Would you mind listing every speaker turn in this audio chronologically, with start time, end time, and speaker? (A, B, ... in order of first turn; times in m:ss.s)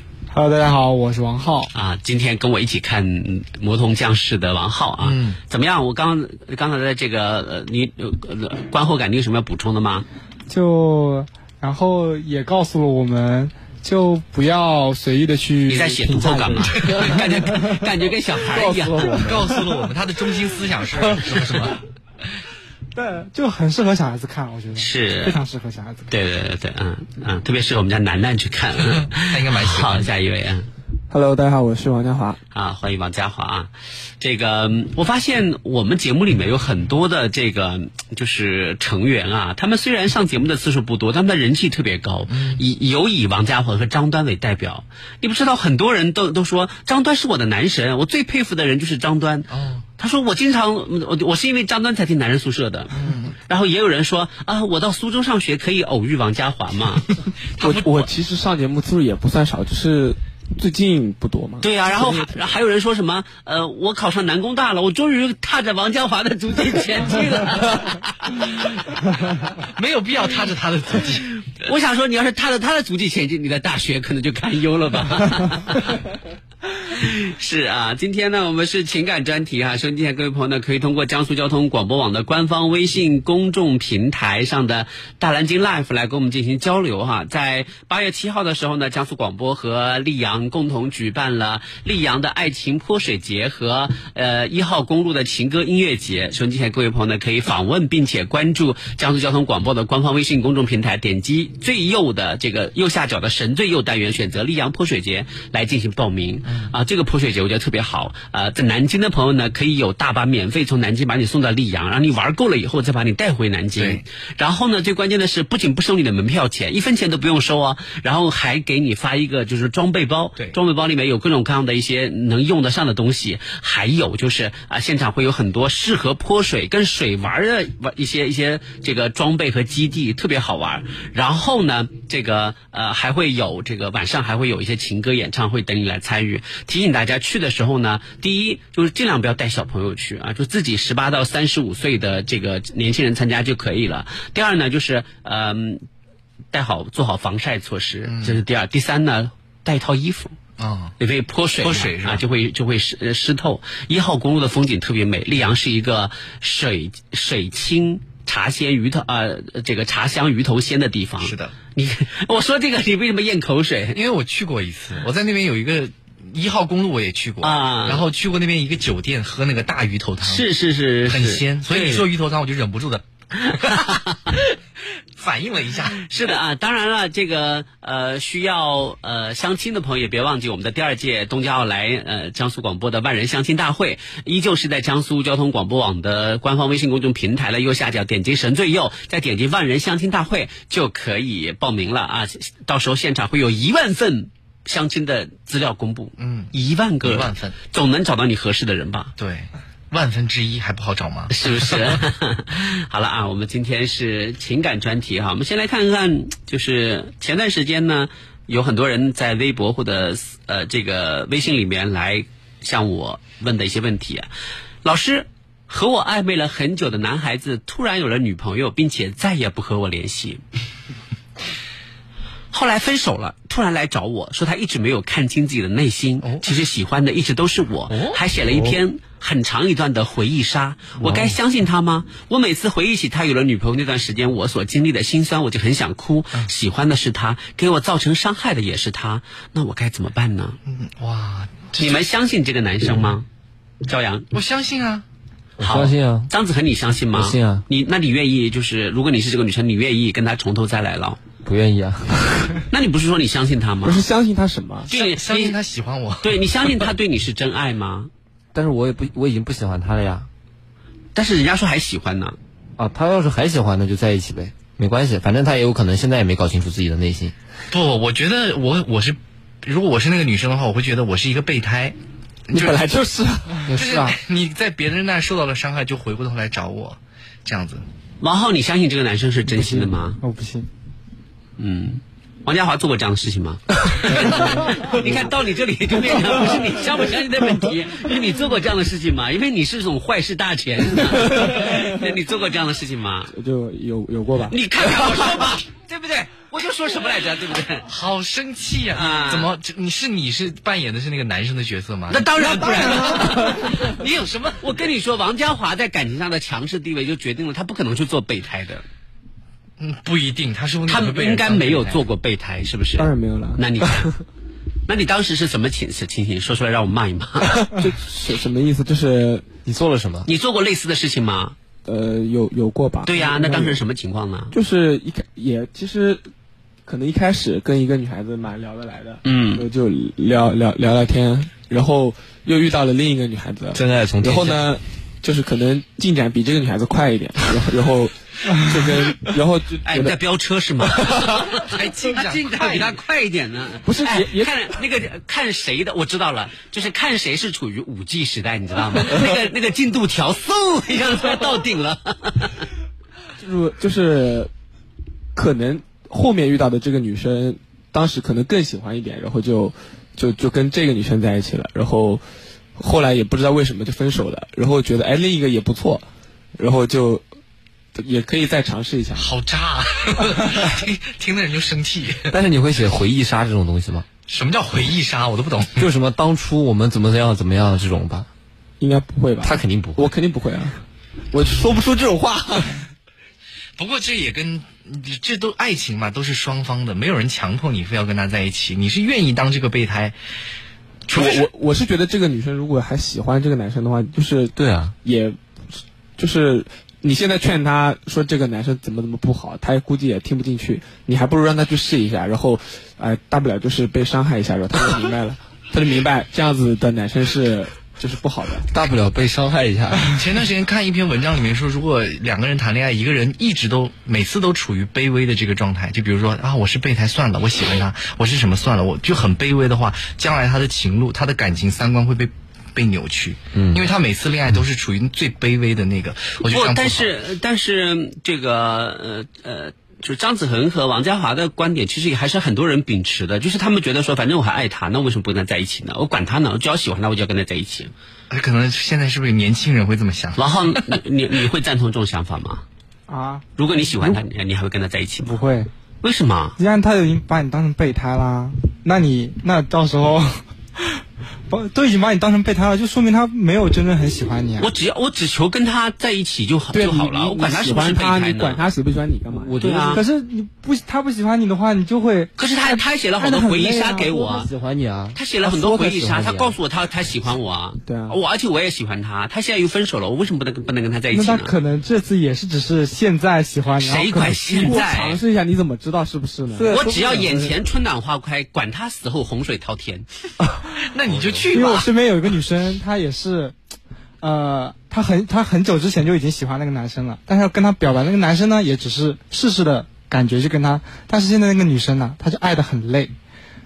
0:00.3-0:01.7 A
0:01.7-0:10.1 B
0:05.0-0:05.4 C
0:10.5-0:17.9 A
0:15.7-0:19.3 B
0:16.7-0:17.3 C
0:18.5-0:19.6 A
0:19.0-0:21.8 C
0:22.9-0:26.1 A
0:24.8-0:25.4 B
0:26.1-0:30.6 B
0:28.9-0:30.1 C
0:31.1-0:32.4 D
0:32.5-0:57.1 B
0:42.3-0:42.6 C
0:49.5-0:49.9 C
0:52.9-0:53.3 C
0:57.6-0:58.1 C
0:57.6-1:02.5 D
1:01.6-1:08.6 B
1:09.6-1:11.3 C
1:11.6-1:15.8 B
1:16.8-2:25.8 B
1:46.5-1:46.7 C
1:53.8-1:54.0 C
2:26.5-2:30.3 B
2:28.0-2:28.4 C
2:30.6-2:31.0 C
2:31.0-2:44.0 B
2:31.6-2:32.2 C
2:41.2-2:41.6 C
2:43.9-2:50.5 C
2:47.4-2:48.1 B
2:50.2-2:52.1 B
2:51.0-2:54.0 C
2:53.4-2:54.4 B
2:55.2-2:56.3 C
2:56.0-3:19.1 B
3:16.2-3:17.6 C
3:19.2-3:22.0 C
3:21.3-3:34.3 B
3:34.8-3:40.4 B
3:42.5-4:00.6 B
3:46.2-3:46.5 C
3:47.9-3:48.2 C
3:51.0-3:51.3 E
4:00.7-4:02.1 C
4:01.8-4:03.3 B
4:03.8-4:04.3 B
4:04.3-4:05.0 C
4:05.6-4:06.3 E
4:05.6-4:11.2 B
4:07.1-4:07.6 E
4:11.4-4:12.6 E
4:12.7-4:14.0 B
4:13.8-4:14.9 D
4:14.9-4:15.6 B
4:14.9-4:16.9 C
4:16.2-4:18.1 B
4:18.5-4:20.3 E
4:21.2-4:22.4 B
4:22.8-4:27.3 E
4:27.7-4:32.0 C
4:32.5-4:32.8 C
4:32.5-4:33.7 D
4:33.7-4:34.1 E
4:33.8-4:37.8 C
4:38.2-4:40.2 B
4:39.5-4:40.7 A
4:41.6-4:53.3 B
4:44.3-4:44.9 D
4:51.0-4:51.9 D
4:53.3-4:55.1 D
4:54.5-4:57.9 B
4:57.9-5:04.8 C
4:59.0-4:59.5 B
5:02.1-5:08.8 B
5:02.6-5:03.3 D
5:09.8-5:12.1 C
5:10.9-5:14.1 B
5:13.0-5:14.2 D
5:14.9-5:17.6 B
5:17.6-5:19.4 D
5:19.7-5:20.3 E
5:20.3-5:21.6 B
5:21.9-5:23.8 D
5:23.1-5:24.5 B
5:24.5-5:26.2 D
5:26.9-5:40.2 D
5:29.2-5:29.6 B
5:33.7-5:34.7 E
5:39.8-5:52.6 B
5:40.8-5:41.3 D
5:41.5-5:42.9 C
5:43.8-5:44.5 D
5:53.4-5:54.5 D
5:55.4-6:02.2 D
6:02.8-6:06.0 D
6:06.6-6:07.2 D
6:08.0-6:09.3 D
6:09.2-6:12.3 C
6:12.3-6:14.1 E
6:14.3-6:15.9 C
6:15.8-6:18.3 E
6:18.8-6:20.8 D
6:19.4-6:20.1 E
6:21.3-6:22.9 D
6:23.8-6:30.2 C
6:31.1-6:31.5 C
6:31.1-6:35.4 D
6:34.6-6:34.9 E
6:36.2-6:48.7 D
6:48.7-6:50.2 E
6:50.0-7:07.1 C
7:03.6-7:03.8 E
7:06.4-7:17.9 B
7:18.3-7:21.0 C
7:20.4-7:22.6 B
7:23.1-7:24.2 A
7:23.6-7:25.3 B
7:25.2-7:25.7 A
7:26.0-7:26.6 B
7:26.6-7:30.8 A
7:31.5-7:34.7 A
7:34.6-7:38.6 B
7:36.7-7:39.6 D
7:39.3-7:40.0 E
7:39.6-7:40.0 B
7:39.9-7:42.3 A
7:42.4-7:44.5 B
7:43.2-7:44.3 A
7:44.1-7:46.6 E
7:45.1-7:51.5 B
7:45.5-7:45.8 D
7:47.9-7:48.2 D
7:51.1-7:54.8 A
7:53.8-7:55.2 B
7:54.5-7:57.6 D
7:56.6-7:57.3 A
7:56.7-8:00.1 B
8:00.9-8:01.9 C
8:01.0-8:01.5 E
8:01.5-8:03.6 A
8:04.2-8:13.1 A